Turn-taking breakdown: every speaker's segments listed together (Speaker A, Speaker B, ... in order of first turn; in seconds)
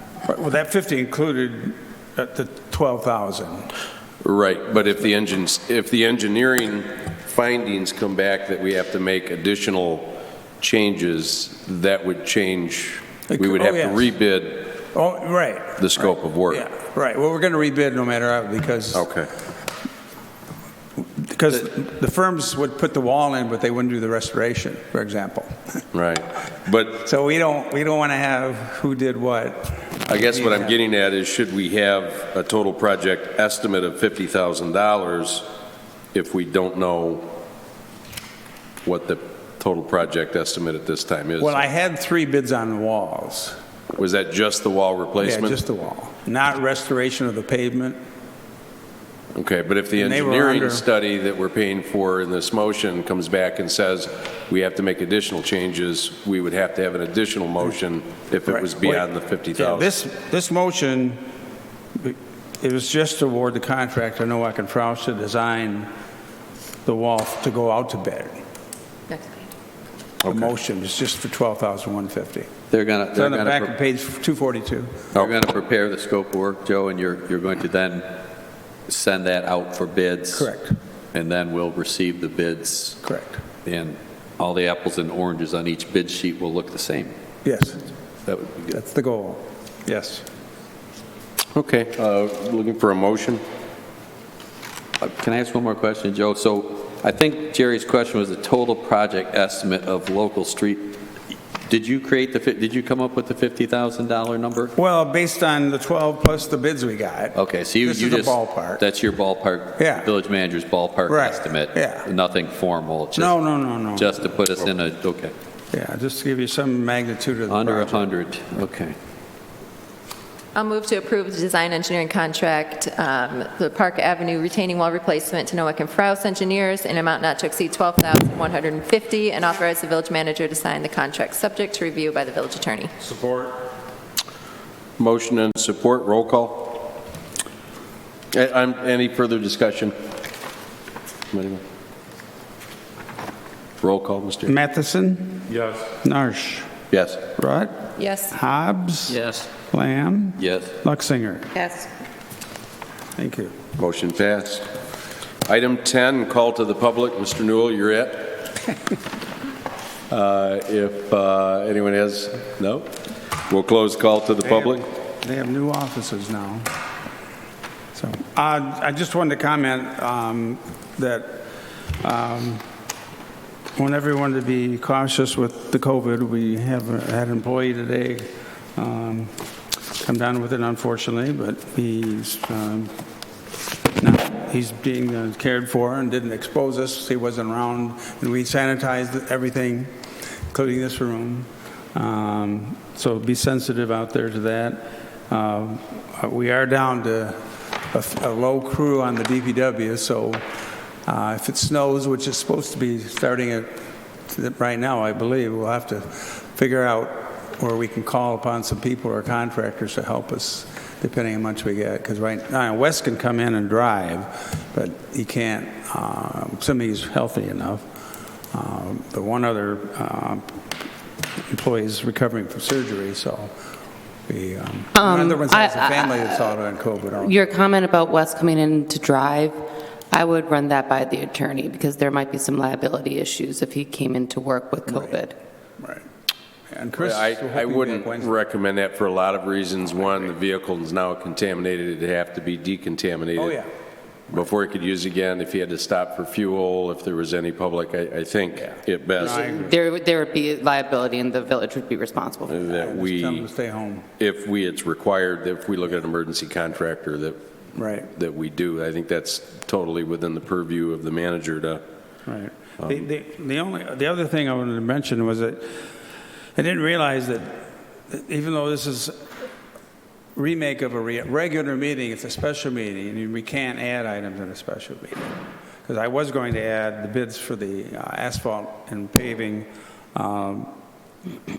Speaker A: 0.2-3.7, 13.3-14.1, 14.9-19.1, 21.1-25.8, 27.0-30.8, 41.4-43.6, 45.2-48.0, 50.0-50.9, 58.5-61.2, 62.0-65.9, 66.8-68.4, 70.3-72.5, 73.1-75.1, 80.3-80.8, 83.0-83.4, 87.5-87.8, 88.7-90.2, 104.8-108.8, 109.8-110.1, 111.1-112.1, 113.1-114.1, 115.7-118.0, 144.5-145.5, 146.0-146.7, 147.4-147.8, 148.3-151.6, 153.2-153.6, 164.4-166.7, 167.9-171.4, 172.0-172.7, 173.8-179.3, 180.0-182.9, 184.0-189.9, 190.5-200.5, 201.1-203.8, 204.3-217.9, 218.5-220.6, 221.5-223.5, 224.3-227.4, 234.9-235.2, 235.8-236.1, 236.7-238.3, 243.4-243.7, 248.6-249.8, 252.8-254.1, 257.8-258.1, 262.3-265.9, 266.6-269.4, 270.4-280.7
Speaker B: 4.2-14.8, 15.8-16.7, 18.9-19.3, 25.9-27.1, 30.1-35.5, 36.1-37.3, 38.9-41.6, 44.0-45.6, 49.3-59.9, 70.2-70.5, 91.5-93.4, 135.0-137.0, 138.3-139.9, 141.3-141.6, 143.8-144.5, 153.8-154.7, 155.4-158.5, 160.1-163.0, 163.5-164.8, 237.0-243.6, 244.3-249.5, 252.5-253.5, 254.2-257.4, 258.1-261.8
Speaker C: 69.1-69.4, 120.5-132.9, 148.0-148.3
Speaker D: 72.7-73.7, 75.2-78.1, 78.9-80.5, 81.1-83.0, 83.7-87.1, 88.3-88.7, 95.0-101.0, 101.7-104.7, 107.3-115.3, 117.5-119.0, 149.1-149.5, 150.4-150.8
Speaker E: 151.6-151.9, 224.9-226.6, 227.2-235.3, 249.2-252.8